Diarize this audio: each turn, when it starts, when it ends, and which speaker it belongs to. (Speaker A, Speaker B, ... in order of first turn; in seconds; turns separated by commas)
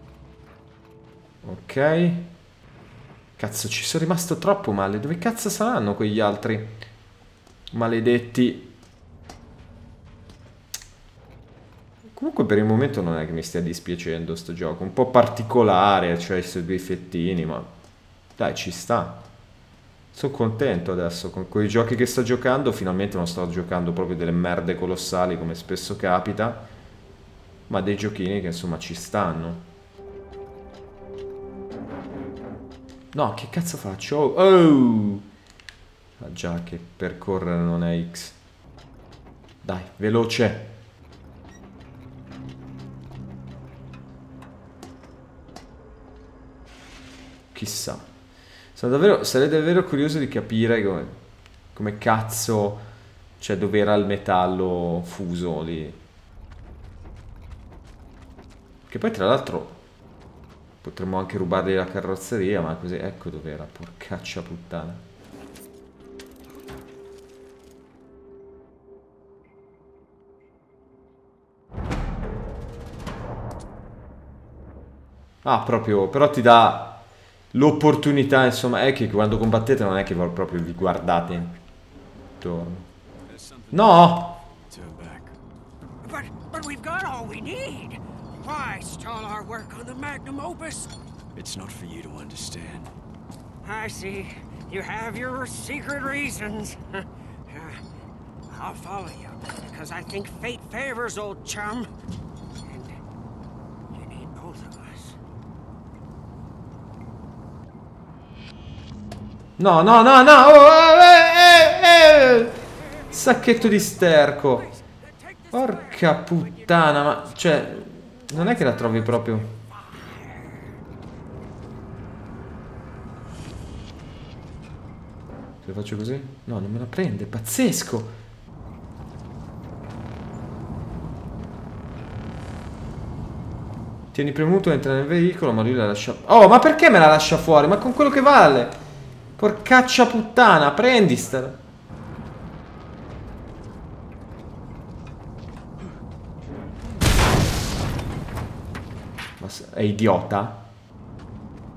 Speaker A: 1.4-2.3, Speaker A: 3.4-6.8, Speaker A: 7.7-8.7, Speaker A: 12.1-17.7, Speaker A: 18.4-19.2, Speaker A: 20.1-26.7, Speaker A: 27.7-29.6, Speaker A: 33.1-35.3, Speaker A: 36.2-38.4, Speaker A: 39.6-40.7, Speaker A: 47.5-48.0, Speaker A: 48.7-51.1, Speaker A: 51.7-52.8, Speaker A: 53.4-56.0, Speaker A: 58.9-59.8, Speaker A: 60.8-65.0, Speaker A: 75.4-81.6, Speaker A: 82.4-82.9, Speaker B: 83.3-83.8, Speaker A: 83.7-84.4, Speaker B: 84.4-85.4, Speaker C: 86.0-90.9, Speaker B: 91.3-92.9, Speaker C: 93.6-97.8, Speaker C: 98.5-101.9, Speaker C: 102.7-103.0, Speaker C: 103.9-105.2, Speaker A: 109.6-114.7, Speaker A: 115.5-119.6, Speaker A: 125.6-128.1, Speaker A: 134.1-138.8, Speaker A: 139.4-141.6, Speaker A: 149.4-150.7